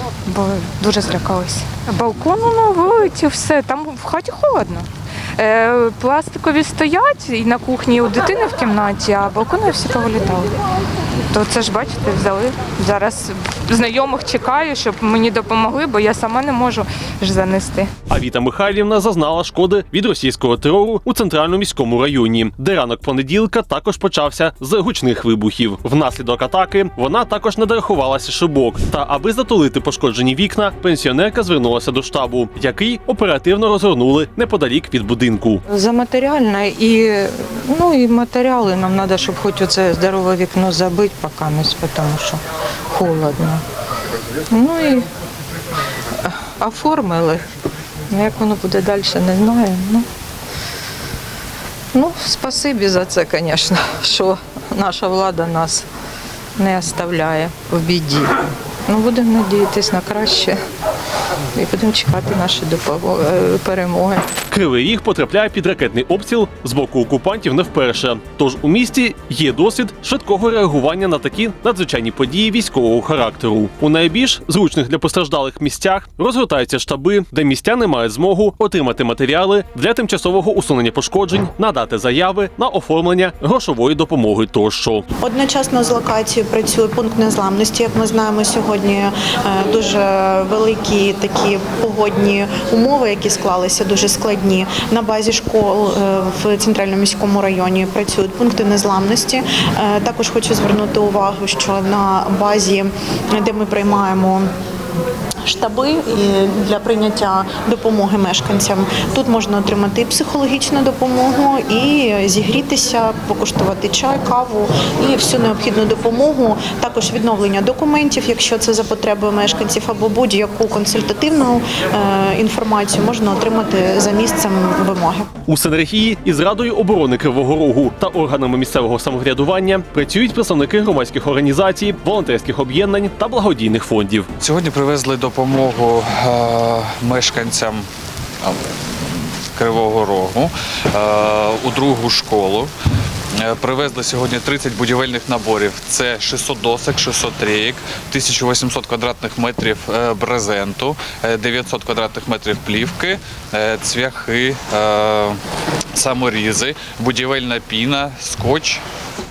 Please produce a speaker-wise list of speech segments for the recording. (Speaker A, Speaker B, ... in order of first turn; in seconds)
Speaker A: 0.2-10.6, 11.3-17.9
Speaker B: 18.1-35.6, 64.5-85.1, 125.5-134.3
Speaker C: 35.7-43.6, 44.5-45.0, 46.2-47.4, 48.1-50.0, 51.9-55.9, 56.6-60.6, 61.5-64.2
Speaker D: 85.2-104.5, 105.4-125.3
Speaker E: 134.4-137.9, 138.4-142.7, 143.3-155.4, 155.9-158.8